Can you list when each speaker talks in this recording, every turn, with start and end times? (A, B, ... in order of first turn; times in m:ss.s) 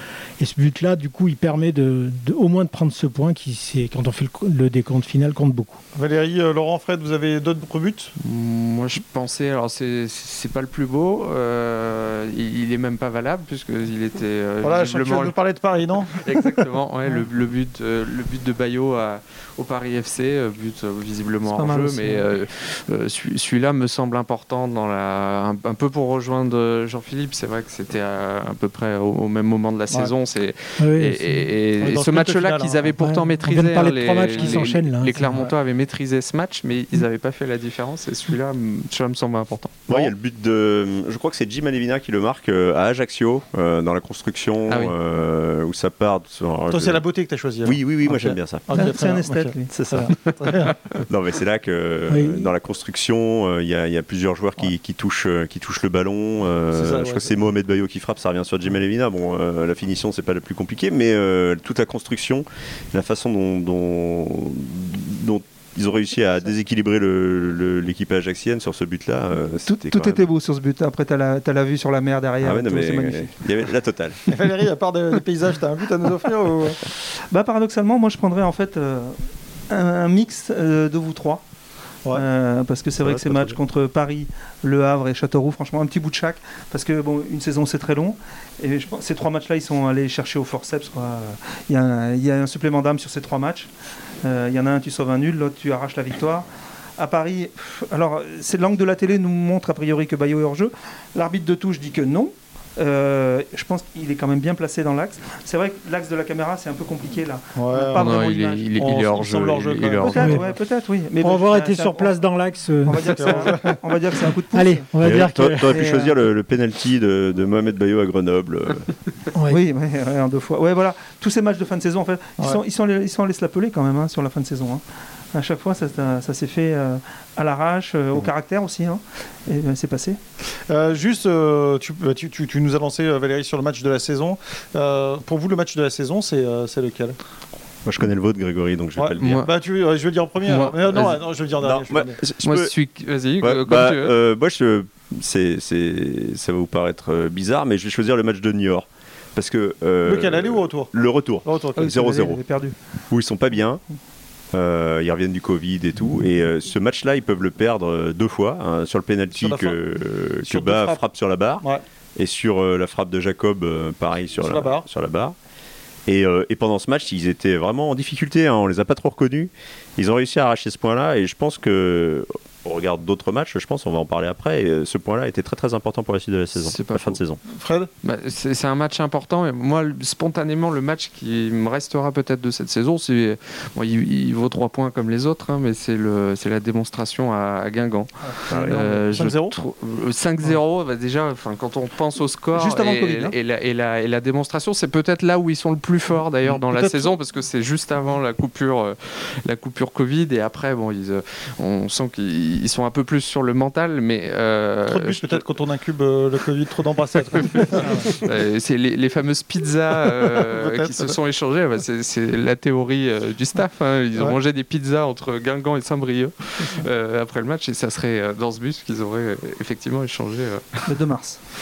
0:00.4-0:05.8 A
0:05.9-0:08.1 B
0:08.2-0:15.3 C
0:14.6-0:16.5 B
0:16.1-0:40.1 C
0:21.5-0:22.3 D
0:30.8-0:31.5 A
0:31.8-0:32.9 B
0:33.0-0:35.3 A
0:34.4-0:34.7 B
0:35.2-0:35.5 B
0:39.9-0:47.0 E
0:44.7-0:44.9 C
0:46.7-0:51.0 B
0:47.6-0:48.7 E
0:48.7-0:49.7 D
0:49.7-0:50.2 E
0:51.1-1:10.2 E
0:52.1-0:52.5 A
0:56.7-0:57.3 B
1:09.6-1:13.3 D
1:12.4-1:14.2 E
1:14.3-1:16.8 B
1:17.3-1:21.4 D
1:22.1-1:48.8 D
1:23.0-1:23.6 E
1:47.6-1:48.0 B
1:47.9-1:50.3 C
1:48.8-1:50.6 B
1:50.0-1:52.2 D
1:50.2-1:50.4 A
1:51.2-1:53.4 A
1:52.8-1:55.0 D
1:53.2-1:53.8 B
1:54.5-1:55.7 A
1:55.0-1:58.9 E
1:55.6-1:56.1 D
1:59.3-1:59.6 A
1:59.5-2:10.2 D
2:10.7-2:17.2 B
2:17.8-2:19.5 E
2:19.0-2:22.2 B
2:19.2-2:19.5 C
2:20.4-2:21.2 C
2:20.9-2:22.7 E
2:22.4-2:24.1 C
2:23.4-2:32.4 E
2:30.0-2:30.9 B
2:31.4-2:32.1 B
2:31.8-2:32.8 D
2:33.1-2:33.8 E
2:34.5-2:41.6 E
2:39.3-2:39.8 B
2:40.4-2:41.0 B
2:42.2-2:45.3 E
2:44.4-2:44.8 B
2:46.0-2:57.4 E
2:56.6-2:57.2 C
2:57.6-2:57.9 B
2:58.0-3:25.4 C
3:08.5-3:08.8 E
3:08.6-3:09.5 B
3:12.5-3:13.3 D
3:16.5-3:17.1 B
3:24.9-3:28.2 B
3:27.4-3:40.9 C
3:30.4-3:31.2 B
3:40.9-3:41.4 D